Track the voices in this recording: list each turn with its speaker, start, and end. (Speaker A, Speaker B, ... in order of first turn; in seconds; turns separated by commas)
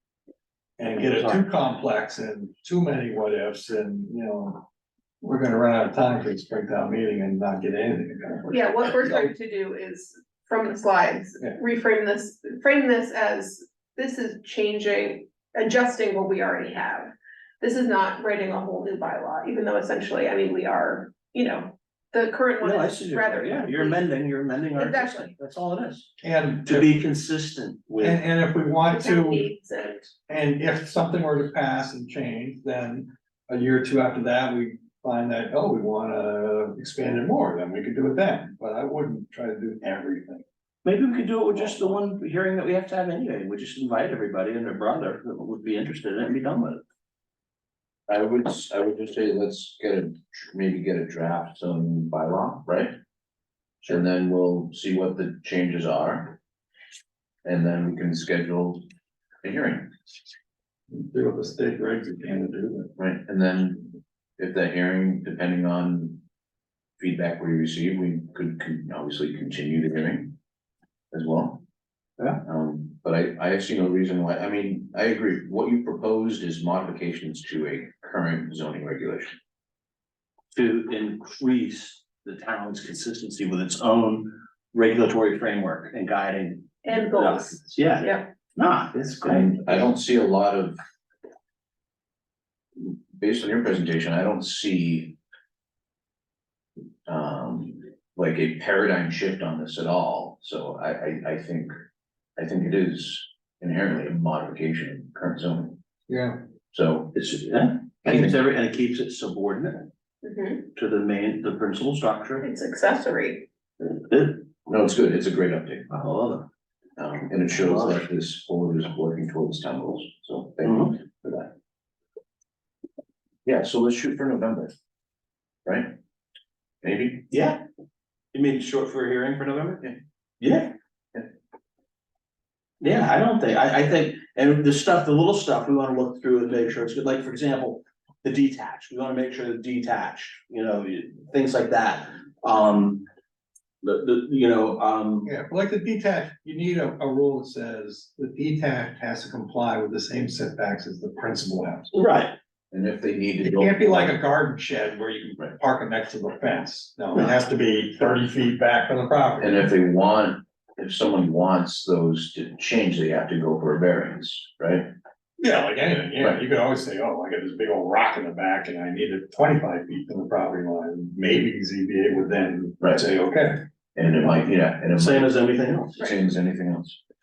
Speaker A: 0.8-4.6, Speaker B: 0.9-1.4, Speaker A: 5.2-9.3, Speaker C: 8.5-24.1, Speaker B: 22.6-26.1, Speaker C: 24.7-25.3, Speaker A: 26.2-26.9, Speaker B: 26.6-28.2, Speaker A: 28.0-29.5, Speaker C: 28.9-30.1, Speaker A: 30.3-40.4, Speaker B: 40.8-46.8, Speaker D: 48.1-52.9, Speaker D: 53.9-56.4, Speaker D: 57.4-58.8, Speaker D: 59.4-59.9, Speaker A: 60.9-62.9, Speaker D: 63.0-66.2, Speaker D: 67.0-70.3, Speaker D: 71.1-71.6, Speaker D: 72.4-79.4, Speaker B: 80.5-89.8, Speaker C: 86.8-88.3, Speaker D: 89.2-90.8, Speaker D: 92.8-95.2, Speaker D: 97.1-101.7, Speaker D: 102.4-105.8, Speaker A: 106.1-106.4, Speaker D: 106.7-107.2, Speaker B: 107.1-109.8, Speaker D: 108.0-108.4, Speaker C: 110.2-110.7, Speaker B: 110.7-112.5, Speaker C: 112.4-113.5, Speaker B: 113.8-114.5, Speaker D: 114.7-115.9, Speaker B: 115.9-116.5, Speaker D: 117.0-121.5, Speaker B: 117.5-118.0, Speaker B: 120.6-120.9, Speaker D: 123.4-124.7, Speaker D: 125.7-125.9, Speaker D: 126.8-127.2, Speaker B: 127.3-127.6, Speaker B: 128.3-129.8, Speaker B: 130.4-130.7, Speaker B: 132.8-143.1, Speaker B: 143.8-145.3, Speaker A: 145.2-151.9, Speaker B: 151.9-152.3, Speaker D: 152.7-154.1, Speaker A: 153.4-159.7, Speaker D: 159.4-164.9, Speaker A: 165.4-173.6, Speaker D: 173.9-175.4, Speaker B: 175.0-176.0, Speaker D: 175.9-177.0